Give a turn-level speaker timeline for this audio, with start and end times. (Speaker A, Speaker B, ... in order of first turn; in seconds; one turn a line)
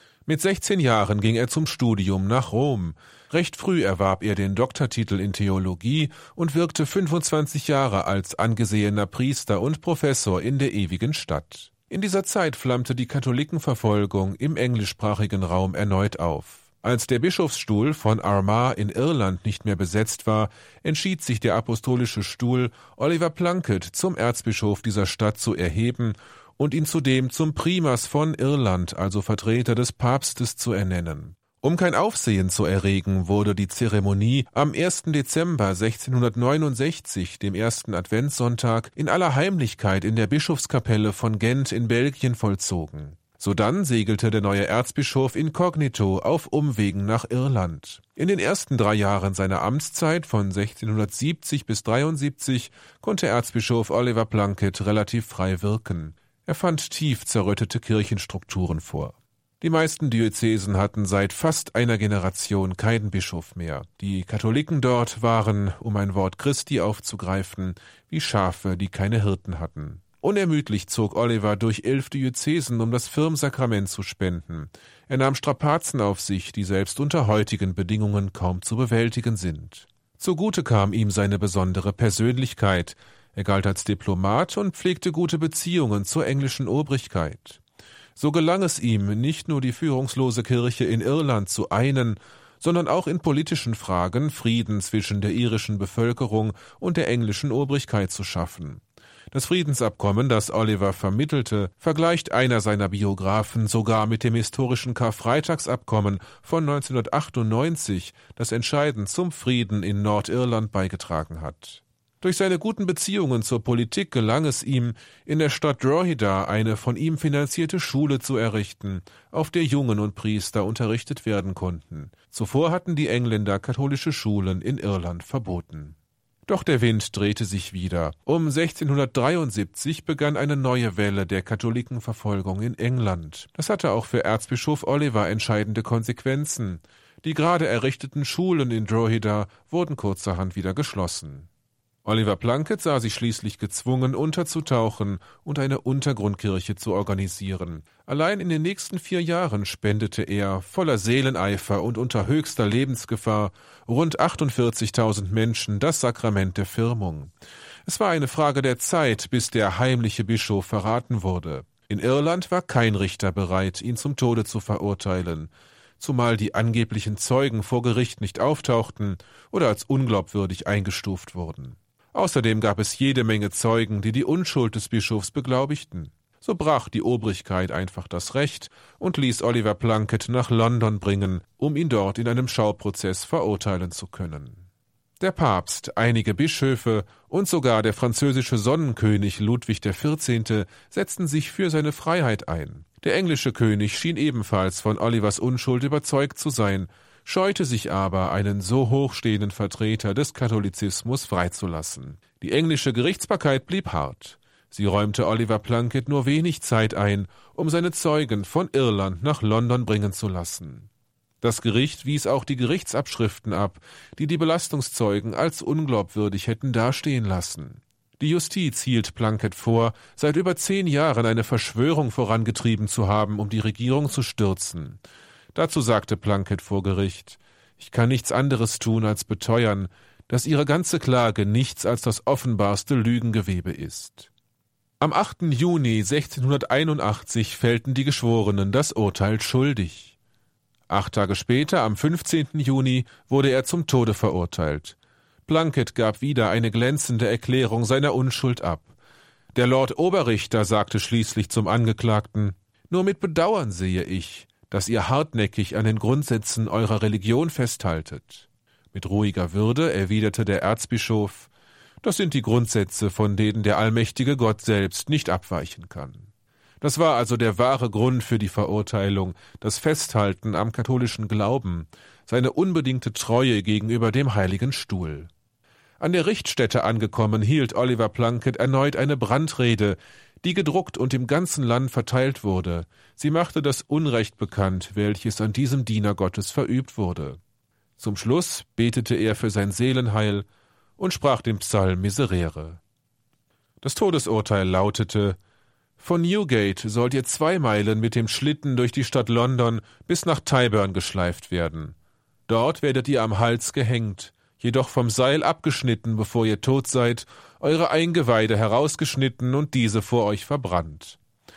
Speaker A: 0.2-87.6
Speaker A: 88.2-141.5
Speaker A: 142.0-157.3
Speaker A: 157.8-184.6
Speaker A: 185.2-210.9
Speaker A: 211.4-225.0
Speaker A: 225.5-234.3
Speaker A: 235.0-240.2
Speaker A: 240.9-248.9
Speaker A: 249.5-261.5
Speaker A: 262.0-266.3
Speaker A: 266.8-275.3
Speaker A: 276.0-287.4
Speaker A: 288.0-290.5
Speaker A: 291.0-292.8
Speaker A: 293.8-295.4
Speaker A: 296.0-301.9
Speaker A: 302.5-311.2